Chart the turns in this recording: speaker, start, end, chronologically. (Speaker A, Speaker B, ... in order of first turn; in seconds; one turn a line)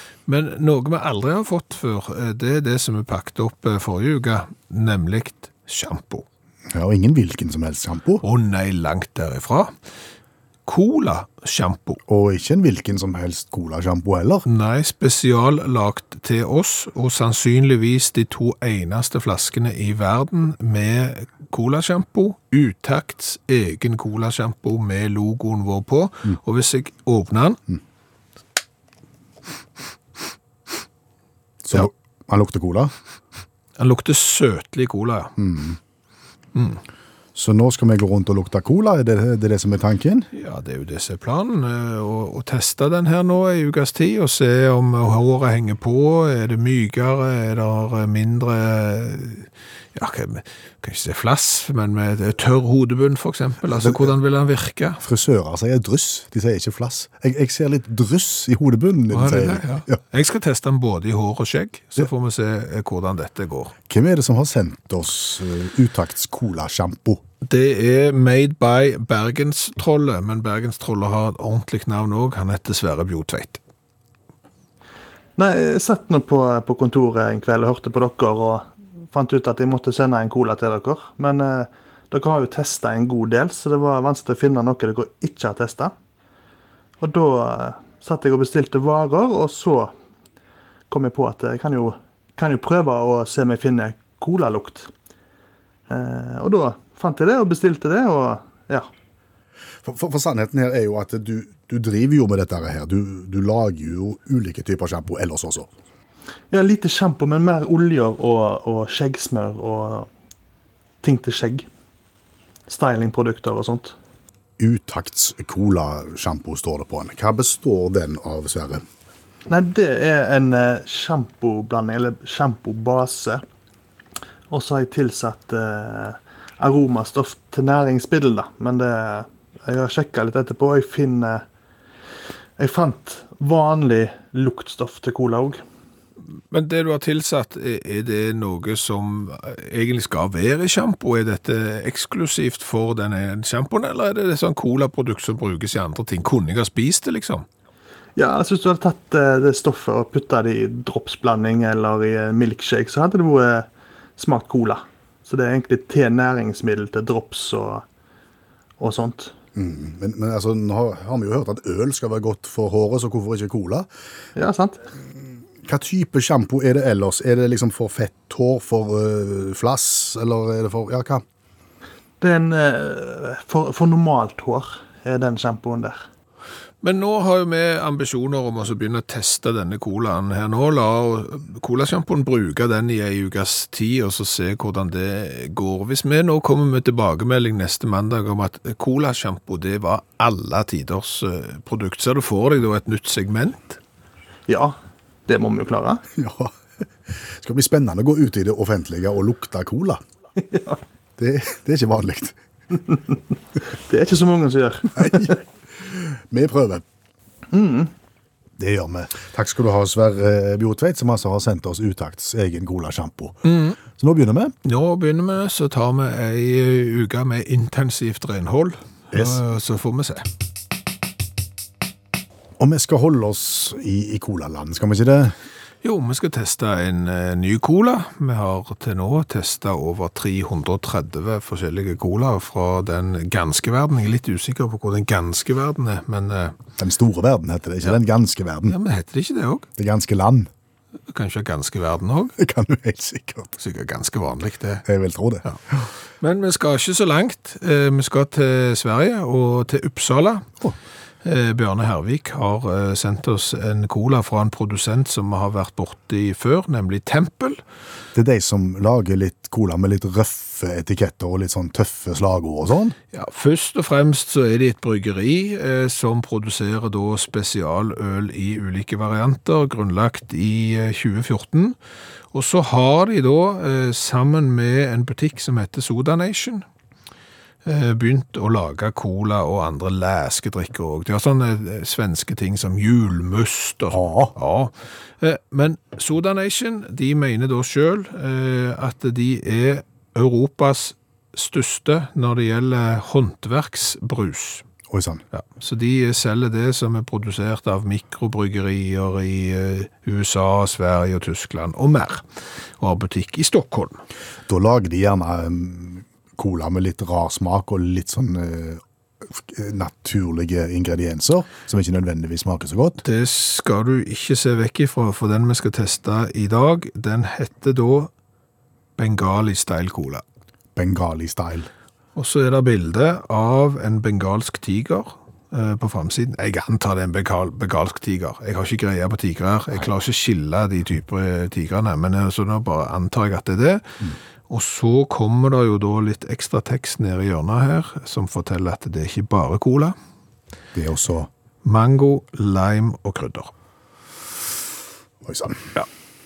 Speaker A: 0.3-6.2
Speaker B: 6.7-8.2
Speaker A: 8.2-9.7
Speaker A: 10.7-12.0
Speaker B: 12.1-14.4
Speaker A: 14.4-27.6
Speaker B: 31.6-32.9
Speaker A: 33.8-35.4
Speaker B: 35.4-35.8
Speaker A: 36.5-36.8
Speaker B: 37.3-40.3
Speaker A: 40.3-55.0
Speaker B: 53.8-54.1
Speaker B: 55.0-60.0
Speaker A: 59.1-63.7
Speaker B: 63.9-67.2
Speaker A: 67.4-73.6
Speaker C: 75.4-85.9
Speaker C: 87.0-89.9
Speaker C: 90.9-94.9
Speaker C: 95.9-98.9
Speaker B: 99.8-105.7
Speaker C: 106.5-110.1
Speaker C: 111.0-111.7
Speaker C: 112.7-113.9
Speaker B: 114.6-118.8
Speaker C: 119.5-123.4
Speaker C: 124.5-131.4
Speaker C: 132.6-135.6
Speaker A: 136.5-147.4
Speaker C: 148.2-157.8
Speaker C: 158.8-159.3
Speaker B: 159.5-163.9
Speaker C: 164.3-164.8
Speaker B: 165.6-171.2
Speaker C: 172.2-176.0
Speaker A: 176.8-193.8
Speaker C: 194.5-196.0
Speaker B: 196.1-196.5
Speaker B: 197.1-200.0
Speaker C: 200.5-200.8
Speaker B: 201.2-202.3
Speaker C: 203.9-205.4
Speaker B: 204.9-206.8
Speaker C: 207.5-207.9
Speaker B: 208.6-213.4
Speaker A: 213.4-213.8
Speaker B: 213.9-214.5
Speaker A: 214.6-220.3
Speaker B: 219.1-219.4
Speaker B: 222.6-225.3
Speaker A: 225.8-236.6
Speaker B: 236.8-238.8
Speaker A: 238.7-239.7
Speaker B: 239.8-240.5
Speaker A: 241.1-242.3
Speaker B: 242.4-243.6
Speaker A: 243.6-244.8
Speaker B: 244.8-245.9
Speaker A: 246.2-250.4
Speaker A: 251.2-257.6
Speaker B: 258.1-262.9
Speaker A: 263.1-271.8
Speaker A: 272.3-276.6
Speaker A: 277.6-294.6
Speaker B: 283.9-284.3
Speaker B: 294.9-295.2
Speaker A: 295.3-302.2
Speaker A: 302.8-304.0
Speaker B: 304.5-313.0
Speaker A: 313.0-318.1
Speaker A: 319.0-320.2
Speaker B: 320.8-321.7
Speaker A: 322.1-339.9
Speaker B: 340.7-341.3
Speaker A: 341.6-343.5
Speaker B: 345.2-345.6